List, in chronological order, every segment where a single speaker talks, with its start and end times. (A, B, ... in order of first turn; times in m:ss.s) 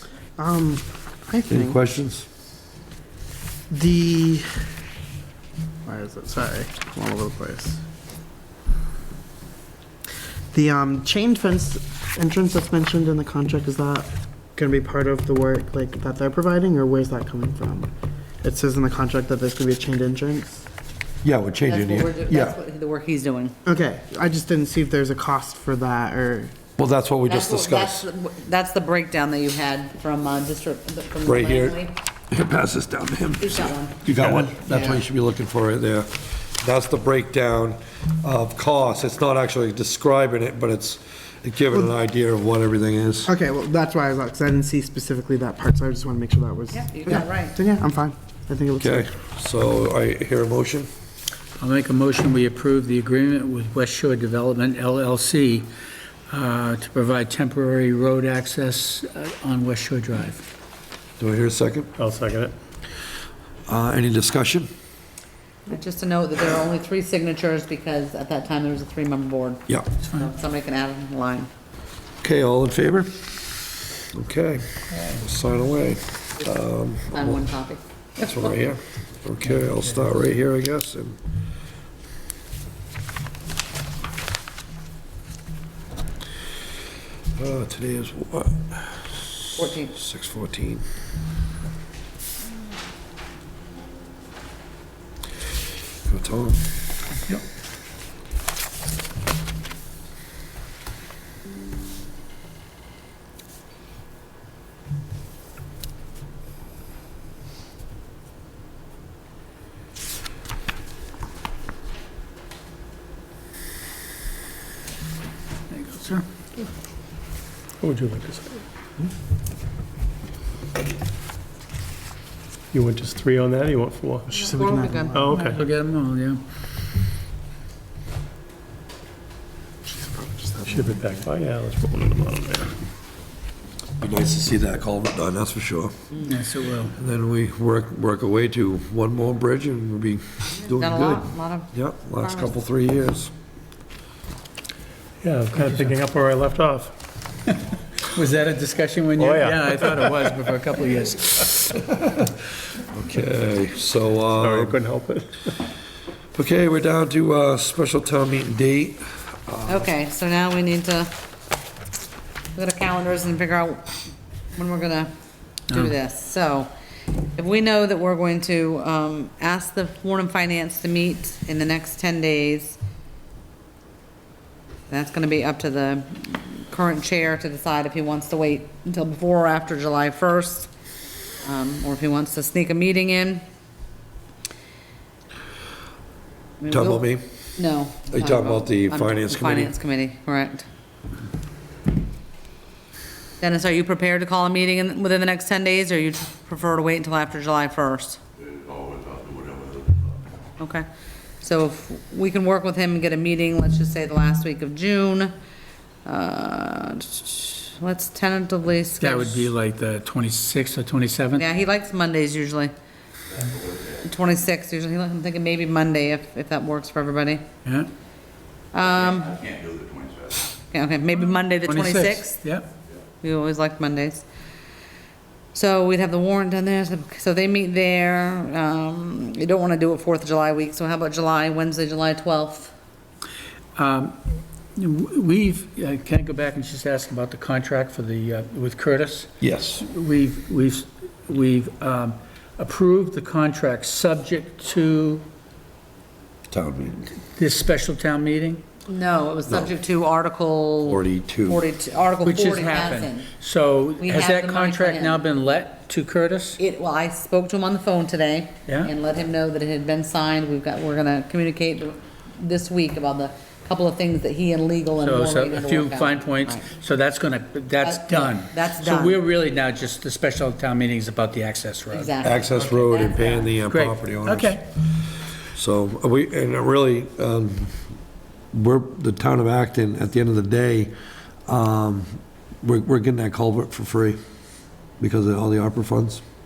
0:00.4-0:01.8 A
0:01.5-0:02.2 B
0:03.7-0:04.7 A
0:05.8-0:07.8 A
0:10.5-0:17.9 A
0:18.4-0:20.6 A
0:21.2-0:22.6 B
0:21.7-0:23.6 C
0:23.6-0:26.5 A
0:26.8-0:28.0 B
0:27.3-0:31.9 C
0:31.2-0:43.3 B
0:33.4-0:34.1 C
0:34.6-0:35.0 C
0:43.2-0:49.1 A
0:46.7-0:47.6 C
0:48.8-0:50.9 B
0:51.6-0:55.7 D
0:56.3-1:00.4 D
1:01.2-1:01.9 B
1:02.0-1:02.5 E
1:03.7-1:04.7 B
1:05.7-1:11.5 C
1:10.0-1:10.3 D
1:12.2-1:17.5 B
1:14.9-1:15.2 D
1:17.1-1:18.6 C
1:18.2-1:21.2 B
1:27.4-1:30.8 B
1:29.6-1:29.9 C
1:36.0-1:36.6 B
1:55.7-1:56.2 D
1:57.8-1:58.6 E
2:02.7-2:04.3 E
2:04.3-2:05.3 A
2:04.3-2:05.3 C
2:05.1-2:05.6 E
2:05.3-2:06.4 D
2:09.9-2:10.8 A
2:10.7-2:12.8 E
2:14.0-2:15.9 B
2:16.2-2:17.0 D
2:17.0-2:23.3 B
2:20.8-2:22.6 C
2:25.2-2:26.9 E
2:25.6-2:25.9 D
2:28.1-2:31.5 D
2:29.2-2:30.1 E
2:32.9-2:34.8 B
2:34.4-2:35.5 E
2:36.3-2:39.9 B
2:39.7-2:41.1 C
2:42.6-2:43.9 C
2:44.6-2:45.1 C
2:45.7-2:46.7 C
2:47.4-2:52.8 C
2:54.9-3:00.7 C
3:01.4-3:03.4 C
3:06.6-3:10.7 C
3:06.7-3:07.2 B
3:08.0-3:09.7 B
3:13.4-3:18.2 C
3:20.6-3:20.8 C
3:21.4-3:25.3 C
3:26.0-3:29.5 C
3:29.0-3:31.4 D
3:31.4-3:32.7 C
3:34.0-3:37.4 C
3:38.7-3:39.6 C
3:40.7-3:42.4 C
3:41.6-3:42.7 D
3:43.2-3:44.2 C
3:45.5-3:52.7 C
3:53.8-3:54.2 D
3:54.8-4:05.3 D
3:59.4-3:59.8 B
4:06.5-4:07.0 B
4:07.3-4:08.6 D
4:08.9-4:13.3 C
4:10.9-4:11.6 B
4:12.2-4:16.6 D
4:14.0-4:15.2 C
4:16.6-4:26.7 C
4:25.0-4:32.1 D
4:27.8-4:29.2 C
4:31.9-4:33.5 C
4:32.2-4:34.6 B
4:33.7-4:34.6 D
4:35.6-4:37.8 B
4:38.5-4:40.9 B
4:41.5-4:44.2 B
4:45.0-4:46.2 B